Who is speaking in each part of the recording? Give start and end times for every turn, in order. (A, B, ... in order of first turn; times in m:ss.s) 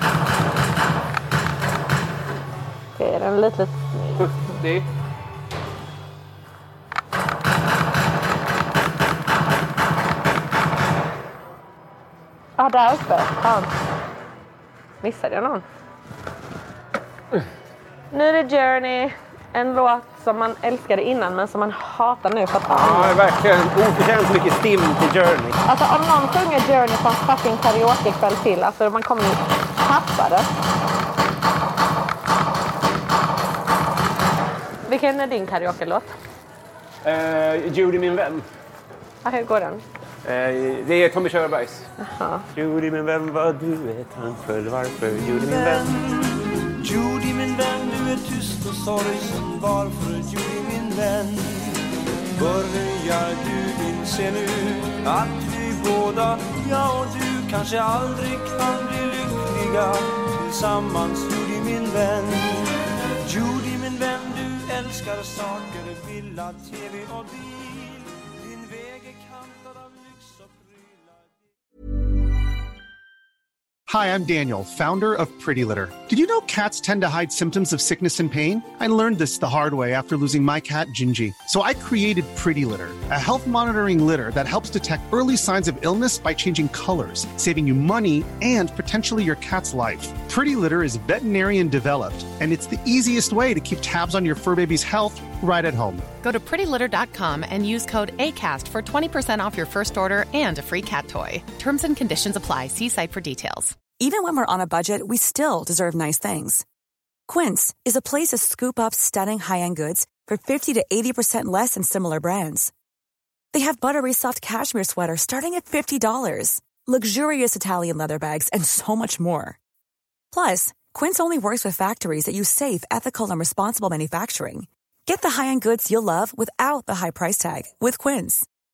0:03.0-0:04.3 A
0:04.2-0:04.9 B
0:12.6-0:13.8 A
0:15.0-0:15.6 A
0:18.1-0:23.2 A
0:22.8-0:25.6 B
0:25.6-0:30.6 A
0:34.9-0:36.1 A
0:37.0-0:38.5 B
0:39.2-0:39.8 A
0:40.2-0:41.9 B
0:42.0-0:42.4 A
0:42.5-0:46.0 B
0:45.4-1:11.4 C
1:13.9-1:36.0 D
1:36.2-1:43.8 E
1:43.9-1:46.6 F
1:47.3-1:52.7 F
1:53.5-1:59.6 F
2:00.3-2:08.5 F